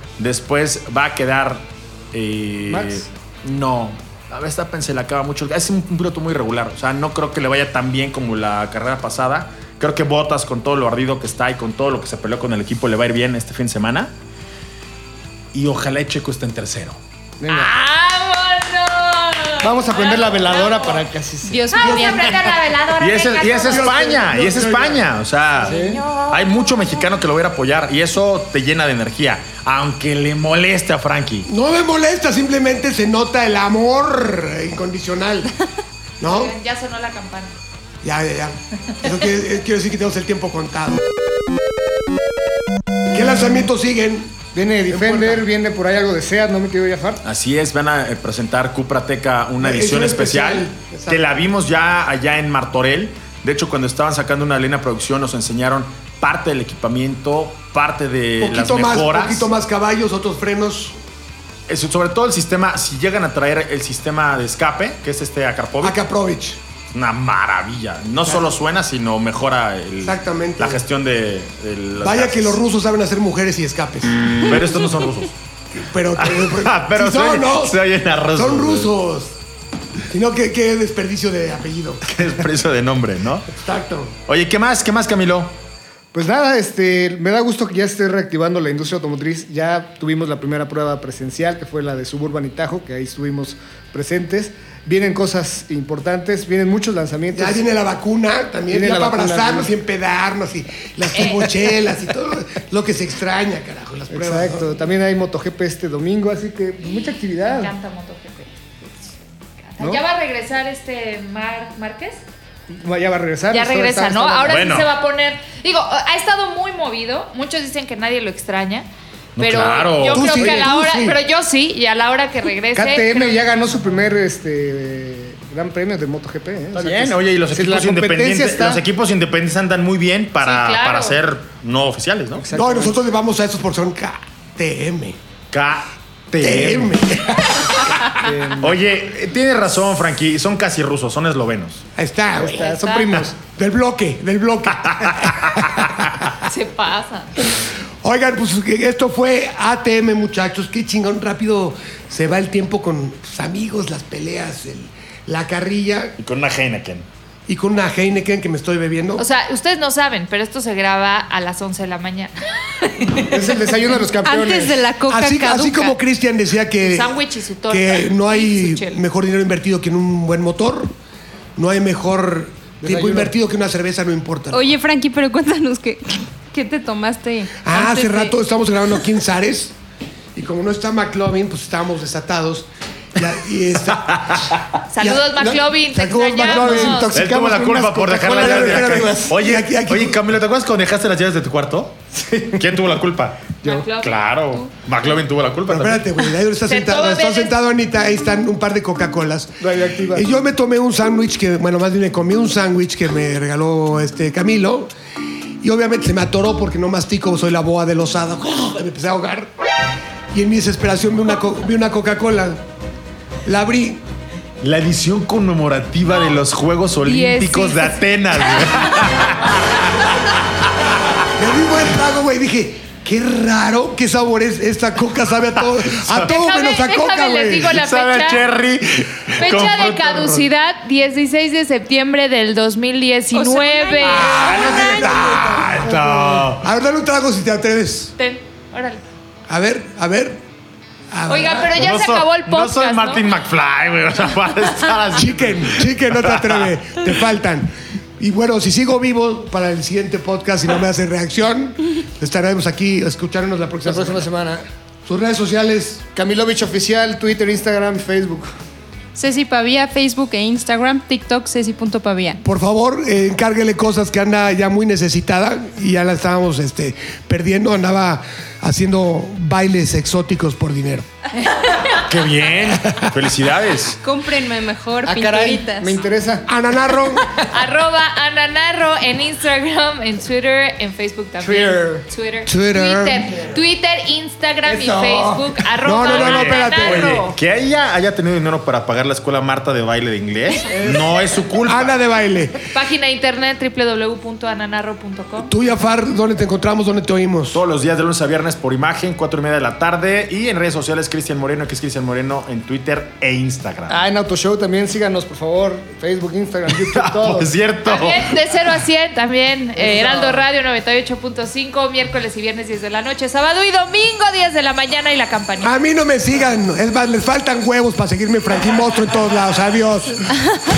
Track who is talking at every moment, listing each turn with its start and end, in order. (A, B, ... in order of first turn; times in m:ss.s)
0:00.2-0:14.1 A
0:02.7-0:03.0 B
0:15.5-0:17.0 A
0:17.4-0:17.7 B
0:17.5-0:21.0 C
0:19.6-0:22.5 B
0:21.4-0:22.5 D
0:21.7-0:24.4 C
0:23.0-0:31.5 A
0:23.7-0:25.0 E
0:25.6-0:26.8 C
0:25.6-0:26.0 B
0:31.4-0:35.5 E
0:36.2-0:36.5 E
0:36.2-0:37.6 C
0:38.0-0:41.0 E
0:43.1-0:45.4 E
0:44.5-0:47.2 B
0:47.2-0:59.5 A
0:49.6-0:51.3 E
0:58.4-1:01.0 E
1:01.7-1:06.0 A
1:05.8-1:06.6 E
1:06.9-1:12.6 A
1:10.0-1:10.8 E
1:12.0-1:14.1 E
1:14.3-1:15.3 A
1:15.7-1:17.8 E
1:16.2-1:18.9 A
1:18.3-1:19.4 E
1:20.1-1:22.1 E
1:22.0-1:23.5 A
1:23.5-1:24.1 E
1:24.3-1:25.6 A
1:26.1-1:37.6 B
1:37.3-1:44.7 E
1:38.7-1:39.7 B
1:41.1-1:41.7 C
1:44.1-1:47.7 B
1:47.4-1:48.5 C
1:49.6-1:52.2 C
1:52.7-1:54.6 B
1:53.5-2:03.5 C
1:54.4-1:54.9 A
1:59.4-2:00.5 A
2:00.1-2:01.2 E
2:02.7-2:08.8 B
2:06.7-2:12.5 A
2:10.4-2:11.2 C
2:12.4-2:13.0 B
2:12.5-2:15.2 E
2:15.5-2:17.4 A
2:16.4-2:17.6 E
2:18.1-2:18.8 B
2:18.6-2:21.8 A
2:22.0-2:22.7 E
2:22.4-2:23.2 C
2:22.4-2:23.4 B
2:23.4-2:26.2 E
2:24.9-2:26.1 A
2:26.4-2:27.4 C
2:28.0-2:36.2 E
2:36.2-2:37.0 A
2:37.5-2:39.2 E
2:39.2-2:43.5 C
2:43.2-2:44.9 B
2:44.2-2:46.0 D
2:45.1-2:50.9 E
2:46.8-2:49.0 C
2:51.6-2:54.8 E
2:52.8-2:53.3 B
2:54.5-2:58.4 D
2:57.6-2:59.7 E
3:00.3-3:07.2 E
3:04.0-3:04.6 A
3:04.9-3:07.1 C
3:06.4-3:09.3 B
3:07.1-3:16.1 A
3:08.4-3:10.2 E
3:12.1-3:12.6 B
3:13.6-3:14.7 C
3:15.7-3:24.9 E
3:16.6-3:17.5 C
3:19.6-3:20.3 B
3:25.6-3:29.5 E
3:30.3-3:32.6 E
3:33.4-3:34.0 E
3:34.6-3:40.1 A
3:37.0-3:38.0 C
3:41.3-3:47.8 E
3:45.6-3:46.3 A
3:46.2-3:48.5 C
3:47.7-3:50.5 A
3:49.4-3:54.4 C
3:53.3-3:55.4 D
3:54.0-3:56.7 A
3:54.1-3:58.1 E
3:58.2-3:59.0 C
3:59.5-4:00.4 E
4:01.1-4:01.9 E
4:01.3-4:03.2 C
4:01.8-4:06.7 A
4:05.1-4:14.3 E
4:13.8-4:14.6 B
4:15.0-4:16.0 E
4:16.1-4:18.5 B
4:19.1-4:22.4 D
4:22.4-4:31.0 E
4:31.9-4:34.0 A
4:32.8-4:33.2 E
4:34.0-4:35.9 D
4:35.0-4:36.5 B
4:36.4-4:37.3 E
4:37.3-4:47.4 C
4:41.4-4:42.0 B
4:42.4-4:43.6 E
4:44.6-4:47.2 E
4:46.0-4:52.0 A
4:51.6-4:52.6 E
4:52.7-4:55.5 C
4:55.4-4:57.6 E
4:57.5-5:04.0 A
5:03.9-5:07.5 B
5:06.7-5:08.7 A
5:07.8-5:15.7 C
5:09.8-5:10.4 B
5:15.6-5:20.2 E